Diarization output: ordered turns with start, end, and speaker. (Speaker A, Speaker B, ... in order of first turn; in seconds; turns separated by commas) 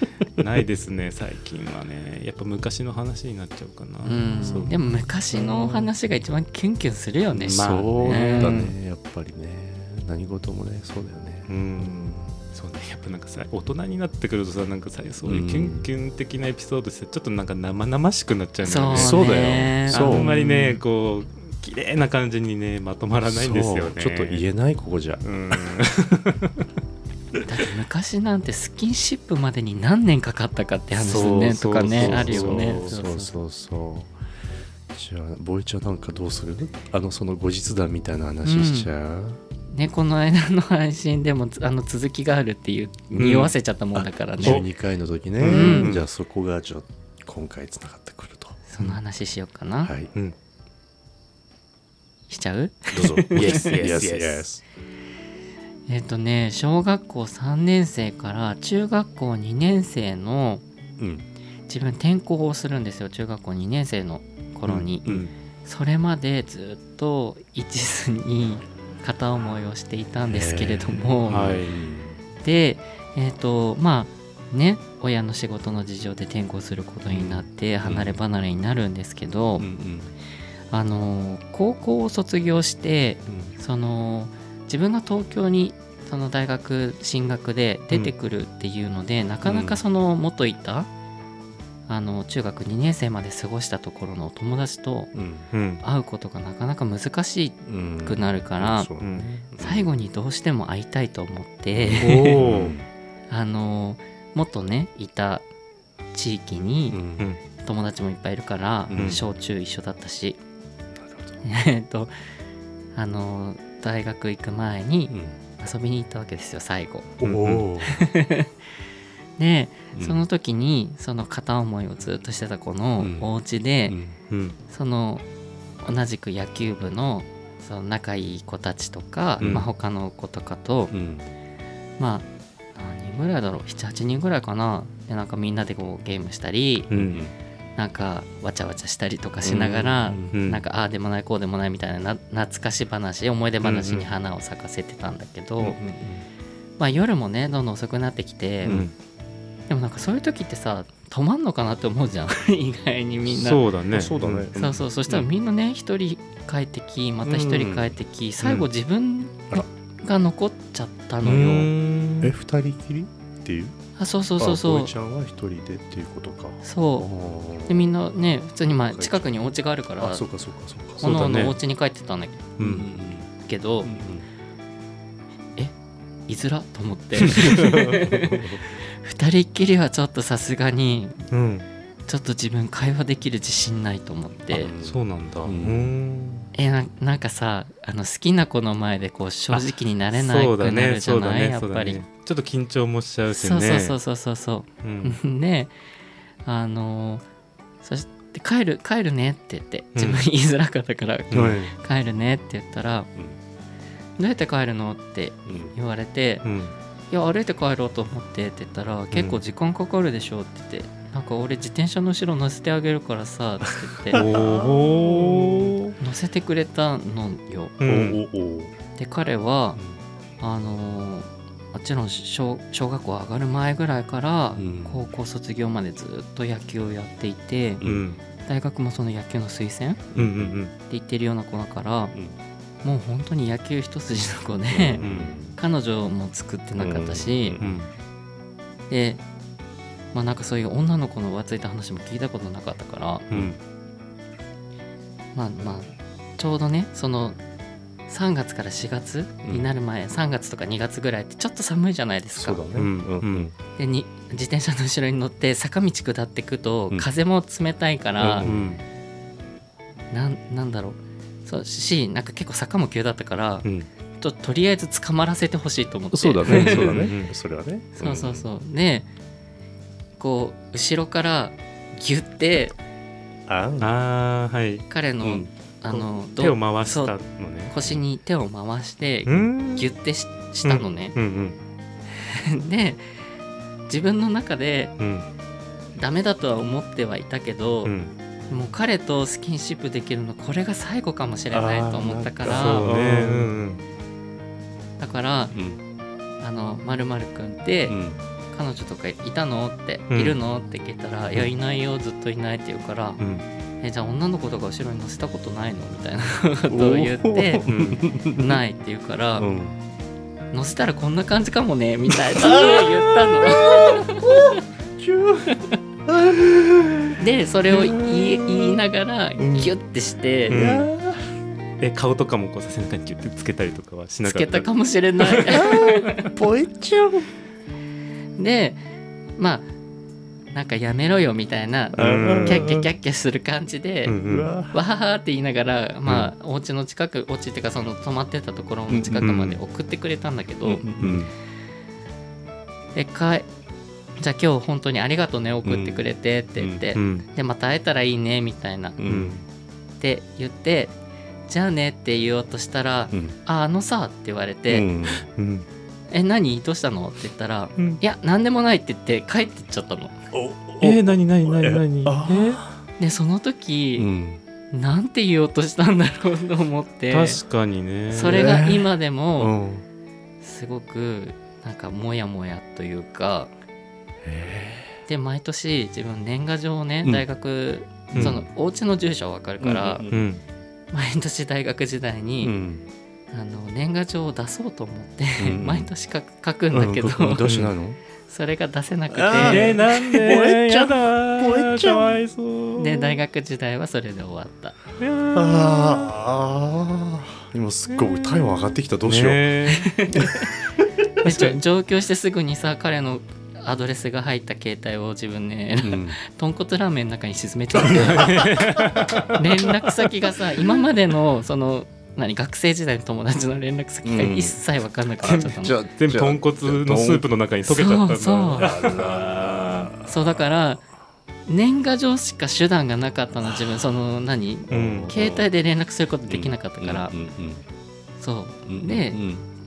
Speaker A: 0.3-4.7, Speaker B: 4.0-8.7, Speaker C: 5.3-5.9, Speaker C: 7.3-12.3, Speaker A: 7.4-8.7, Speaker A: 11.5-24.4, Speaker C: 15.2-15.9, Speaker B: 18.6-20.8, Speaker C: 18.9-20.3, Speaker C: 23.2-25.8, Speaker A: 25.2-26.6, Speaker B: 27.4-33.4, Speaker A: 31.0-32.9, Speaker C: 31.1-34.1, Speaker C: 34.9-39.4, Speaker B: 38.4-38.9, Speaker B: 39.7-44.6, Speaker A: 43.1-43.5, Speaker C: 43.9-48.6, Speaker A: 45.4-46.0, Speaker B: 45.4-45.9, Speaker B: 48.7-49.9, Speaker C: 49.8-50.1, Speaker B: 52.3-53.9, Speaker C: 52.9-54.6, Speaker A: 53.3-54.5, Speaker B: 55.9-60.6, Speaker C: 61.0-61.2, Speaker B: 61.7-65.1, Speaker A: 64.7-65.3, Speaker B: 65.6-71.6, Speaker C: 70.3-72.2, Speaker A: 71.3-71.7, Speaker B: 72.4-79.7, Speaker C: 77.1-78.2, Speaker C: 79.6-80.1, Speaker B: 80.7-90.9, Speaker C: 83.3-83.5, Speaker C: 89.4-89.8, Speaker B: 91.9-95.1, Speaker C: 95.1-95.5, Speaker A: 95.5-95.8, Speaker B: 95.8-98.9, Speaker C: 97.7-99.9, Speaker B: 99.6-102.4, Speaker C: 101.7-102.9, Speaker A: 102.0-102.8, Speaker B: 103.3-105.5, Speaker B: 106.1-107.0, Speaker C: 106.9-107.3, Speaker B: 107.6-110.4, Speaker C: 108.9-109.2, Speaker A: 108.9-109.2, Speaker C: 110.9-111.4, Speaker B: 111.4-112.1, Speaker B: 112.9-117.2, Speaker C: 115.1-115.4, Speaker C: 117.2-118.0, Speaker A: 117.2-117.7, Speaker B: 117.8-118.5, Speaker B: 119.4-124.0, Speaker C: 119.9-120.2, Speaker C: 123.0-123.3, Speaker C: 123.9-124.2, Speaker A: 124.3-124.6, Speaker B: 124.7-125.2, Speaker B: 125.8-130.9, Speaker C: 129.4-129.7, Speaker C: 130.9-131.3, Speaker B: 132.0-136.9, Speaker A: 136.9-137.2, Speaker C: 136.9-137.3, Speaker B: 137.8-145.8, Speaker C: 139.4-140.4, Speaker A: 140.3-140.6, Speaker A: 143.6-144.1, Speaker C: 145.6-146.3, Speaker B: 146.8-148.9, Speaker A: 148.7-148.9, Speaker B: 149.7-153.6, Speaker A: 153.3-154.5, Speaker C: 153.9-154.9, Speaker B: 154.5-161.7, Speaker C: 157.2-158.0, Speaker A: 161.2-162.3, Speaker C: 162.2-163.8, Speaker B: 164.0-164.9, Speaker C: 164.4-167.9, Speaker B: 166.6-167.1, Speaker B: 167.7-170.2, Speaker C: 168.9-171.3, Speaker A: 171.0-171.6, Speaker B: 171.0-172.5, Speaker A: 172.6-172.9, Speaker C: 172.6-173.3, Speaker B: 173.4-173.9, Speaker C: 173.8-174.3, Speaker B: 176.3-181.3, Speaker C: 177.4-178.6, Speaker A: 181.3-181.7, Speaker B: 182.1-184.7, Speaker C: 184.5-185.9, Speaker A: 184.8-186.5, Speaker B: 186.5-192.0, Speaker A: 189.5-194.0, Speaker B: 193.3-195.7, Speaker A: 194.8-195.2, Speaker B: 196.4-197.2, Speaker B: 197.8-203.1, Speaker A: 199.9-200.2, Speaker A: 201.3-201.6, Speaker C: 201.3-201.7, Speaker B: 204.2-206.4, Speaker C: 205.4-205.7, Speaker A: 206.4-206.7, Speaker B: 207.1-214.2, Speaker A: 209.1-209.4, Speaker C: 214.0-215.8, Speaker A: 214.1-215.9, Speaker B: 216.0-217.8, Speaker A: 217.8-218.2, Speaker C: 217.8-218.7, Speaker B: 219.0-219.8, Speaker B: 220.4-227.8, Speaker C: 224.6-225.0, Speaker C: 227.8-228.1, Speaker A: 227.8-228.2, Speaker B: 228.4-230.1, Speaker C: 230.1-230.6, Speaker A: 230.1-230.7, Speaker B: 230.9-232.1, Speaker B: 232.8-235.0, Speaker C: 234.7-235.6, Speaker A: 235.0-235.3, Speaker B: 235.5-237.6, Speaker C: 236.8-237.8, Speaker A: 237.6-237.9, Speaker B: 238.9-239.2, Speaker B: 240.1-243.3, Speaker A: 243.3-243.6, Speaker B: 245.3-247.4, Speaker B: 248.1-252.6, Speaker C: 252.3-253.5, Speaker A: 252.7-253.5, Speaker B: 253.8-258.5, Speaker C: 258.2-258.7, Speaker A: 258.4-258.8, Speaker B: 260.1-263.6, Speaker A: 263.6-263.9, Speaker B: 264.2-267.1, Speaker C: 266.1-268.5, Speaker A: 266.4-267.3, Speaker B: 267.9-269.1, Speaker B: 270.2-272.7, Speaker C: 273.5-273.9, Speaker A: 273.8-274.9, Speaker B: 274.9-277.2, Speaker C: 275.2-275.5, Speaker A: 276.4-277.9, Speaker B: 277.7-281.1, Speaker A: 279.2-279.9, Speaker A: 280.6-281.6, Speaker B: 282.1-283.1, Speaker B: 283.9-284.9, Speaker A: 285.0-285.3, Speaker B: 285.9-287.9, Speaker A: 287.8-288.1, Speaker B: 288.5-292.9, Speaker C: 291.5-293.5, Speaker A: 292.4-293.8, Speaker B: 295.0-295.5, Speaker C: 295.5-295.8, Speaker B: 296.4-298.0, Speaker C: 297.9-298.2, Speaker B: 298.5-303.2, Speaker A: 300.1-300.4, Speaker A: 303.2-303.4, Speaker B: 303.8-307.7, Speaker C: 306.7-308.6, Speaker A: 307.6-308.0, Speaker B: 308.3-309.5, Speaker C: 309.4-309.8, Speaker B: 310.5-314.6, Speaker C: 312.3-318.8, Speaker B: 315.5-315.8, Speaker B: 317.2-320.6, Speaker C: 319.4-319.7, Speaker C: 320.5-321.3, Speaker A: 320.5-320.9, Speaker A: 321.8-324.7, Speaker B: 324.2-326.3, Speaker A: 325.2-326.3, Speaker C: 325.5-327.3, Speaker B: 328.4-328.8, Speaker B: 329.4-329.7, Speaker B: 330.5-340.9, Speaker C: 331.9-332.9, Speaker A: 331.9-332.7, Speaker A: 334.1-334.5, Speaker C: 334.2-334.8, Speaker C: 338.9-339.3, Speaker A: 339.2-339.6, Speaker C: 340.6-341.3, Speaker A: 341.0-341.3, Speaker B: 342.9-343.5, Speaker B: 344.2-349.0, Speaker C: 345.6-346.1, Speaker C: 346.6-346.8, Speaker A: 346.9-347.2, Speaker C: 349.0-349.4, Speaker A: 349.1-349.3, Speaker B: 350.0-350.9, Speaker B: 351.5-354.9, Speaker C: 354.7-355.3, Speaker A: 355.2-355.7, Speaker B: 356.1-360.2, Speaker C: 360.3-362.8, Speaker A: 360.8-362.6, Speaker B: 363.0-364.1, Speaker C: 363.9-364.4, Speaker B: 364.7-367.4, Speaker A: 367.1-368.5, Speaker B: 368.1-369.5, Speaker C: 368.2-369.8, Speaker B: 370.4-373.5, Speaker C: 374.2-375.0, Speaker B: 375.1-380.1, Speaker A: 378.1-378.4, Speaker C: 378.1-378.4, Speaker C: 379.6-380.3, Speaker A: 380.1-380.4, Speaker B: 380.9-382.6, Speaker C: 382.4-382.9, Speaker B: 383.3-387.5, Speaker C: 385.4-385.9, Speaker C: 386.7-388.0, Speaker A: 387.4-387.7, Speaker B: 388.2-390.0, Speaker C: 389.1-392.2, Speaker A: 389.3-393.2, Speaker B: 392.8-394.8, Speaker A: 395.0-395.9, Speaker C: 395.3-399.5, Speaker A: 399.0-399.9, Speaker B: 399.7-400.5, Speaker B: 401.2-408.5, Speaker C: 405.8-406.2, Speaker C: 407.8-409.2, Speaker A: 407.9-409.4, Speaker B: 409.3-415.8, Speaker C: 414.0-414.6, Speaker C: 415.2-417.3, Speaker A: 415.2-419.9, Speaker B: 417.7-418.7, Speaker C: 418.6-420.4, Speaker B: 420.0-420.8, Speaker B: 421.5-427.1, Speaker C: 423.4-423.9, Speaker C: 424.7-425.5, Speaker A: 424.7-425.1, Speaker C: 426.3-427.6, Speaker B: 428.2-429.2, Speaker C: 428.6-429.5